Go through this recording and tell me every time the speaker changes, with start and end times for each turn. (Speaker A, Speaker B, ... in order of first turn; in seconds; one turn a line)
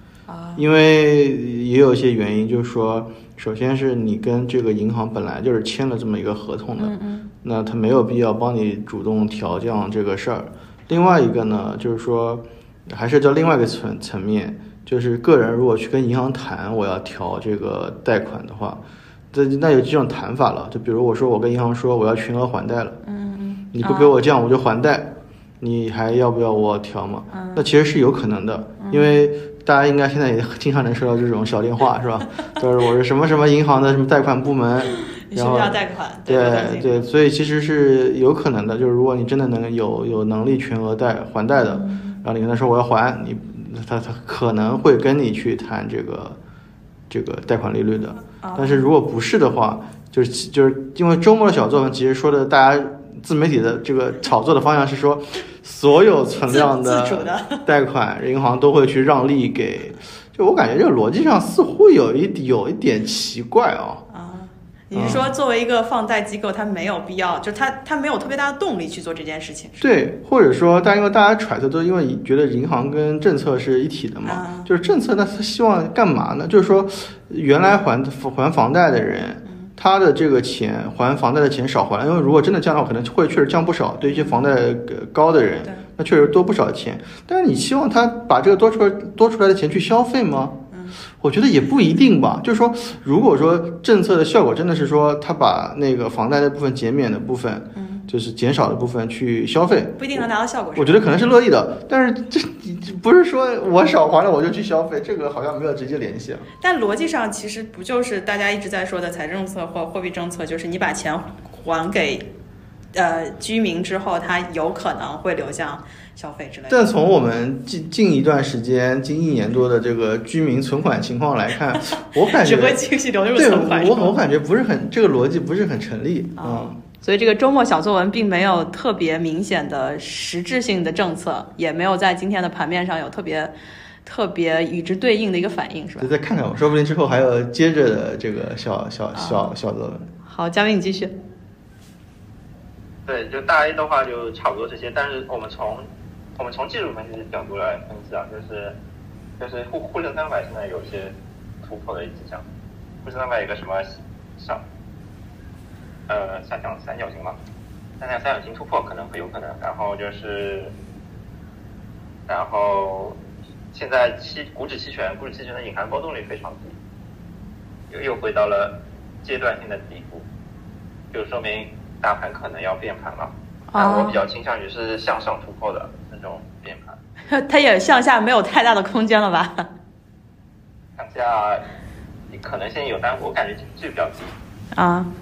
Speaker A: 0.3-0.6
Speaker B: 0.6-18.8
Speaker A: 6.8-7.3
Speaker A: 10.9-11.2
Speaker B: 19.3-23.0
Speaker A: 23.0-24.1
Speaker B: 23.7-25.1
Speaker B: 25.6-46.4
Speaker A: 27.3-27.7
Speaker A: 28.8-29.2
Speaker A: 35.0-37.1
Speaker A: 41.7-42.2
Speaker B: 47.1-64.0
Speaker A: 48.4-48.9
Speaker A: 56.5-57.7
Speaker A: 64.1-69.8
Speaker B: 64.9-65.3
Speaker B: 69.8-90.6
Speaker A: 74.3-74.7
Speaker A: 79.5-79.7
Speaker A: 84.0-84.5
Speaker A: 90.7-91.0
Speaker B: 91.2-106.5
Speaker A: 97.8-98.1
Speaker A: 100.0-101.1
Speaker A: 106.6-112.3
Speaker A: 112.9-116.8
Speaker B: 116.7-122.8
Speaker A: 121.9-124.2
Speaker B: 123.3-126.8
Speaker A: 126.4-133.5
Speaker A: 134.1-136.1
Speaker B: 136.0-140.1
Speaker A: 139.2-139.5
Speaker A: 140.2-141.1
Speaker C: 143.1-145.9
Speaker C: 146.4-148.8
Speaker C: 149.4-152.4
Speaker C: 153.0-154.6
Speaker C: 156.1-157.4
Speaker C: 158.0-160.7
Speaker C: 162.3-163.2
Speaker C: 163.7-166.8
Speaker C: 167.9-170.3
Speaker C: 171.1-177.0
Speaker A: 173.7-174.2
Speaker A: 177.3-179.7
Speaker C: 181.0-181.6
Speaker C: 182.3-184.4
Speaker A: 184.7-185.1